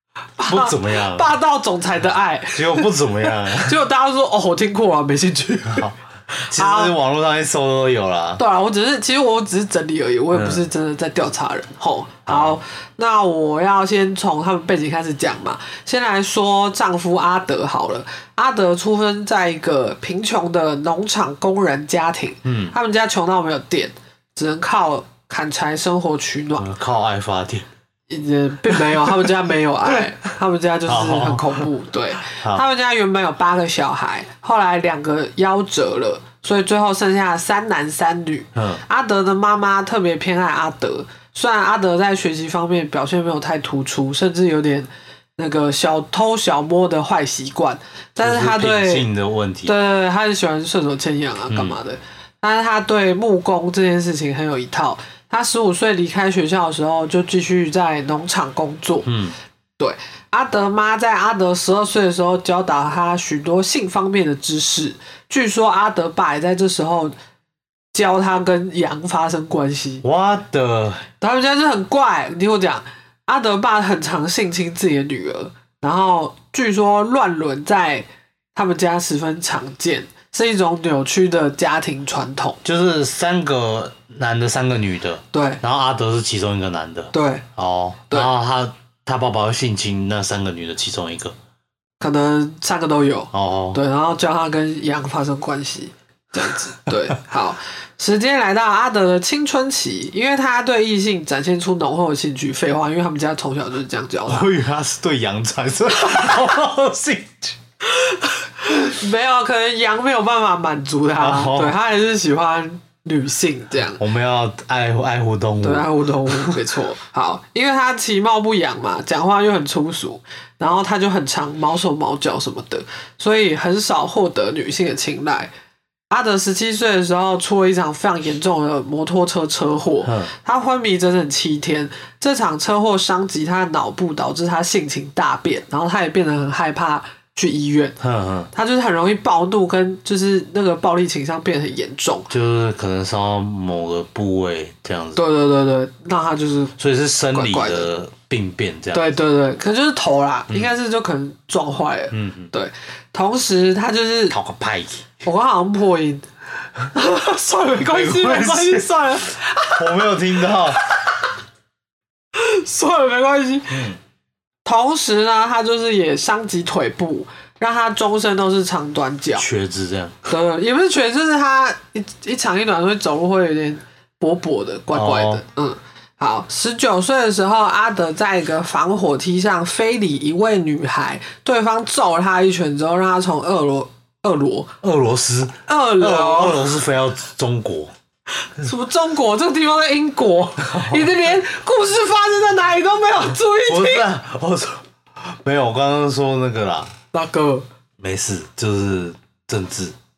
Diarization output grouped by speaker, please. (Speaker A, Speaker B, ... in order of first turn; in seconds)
Speaker A: 0.4-6.9, 8.4-26.7, 28.1-49.1, 49.6-59.1, 59.8-67.1, 67.9-70.0, 71.2-82.6, 85.3-85.6, 87.1-87.4, 92.0-104.5, 107.8-114.0, 115.6-125.5, 126.1-138.0, 138.5-142.3, 145.1-146.8, 147.3-147.9, 148.9-154.3, 155.2-156.2, 156.8-160.1, 160.7-161.1, 162.3-163.9, 164.6-169.4, 170.2-184.7, 185.7-186.8, 188.4-194.1, 197.1-197.7
Speaker B: 0.5-1.3, 2.5-3.8, 5.7-6.0, 6.5-8.4, 10.3-10.7, 12.3-12.6, 22.4-22.7, 26.6-27.6, 28.9-29.3, 30.9-31.6, 32.3-32.6, 38.5-38.8, 48.2-49.7, 51.5-51.8, 59.0-59.3, 70.0-71.0, 82.6-91.3, 93.3-93.8, 104.3-107.6, 111.2-111.8, 114.0-116.6, 130.0-130.3, 138.0-138.5, 142.3-145.2, 146.8-149.1, 152.1-152.5, 154.3-155.1, 157.8-159.1, 159.7-160.8, 163.7-164.0, 169.3-170.1, 174.9-175.4, 184.8-187.9, 190.7-191.1, 193.7-196.9, 198.0-199.9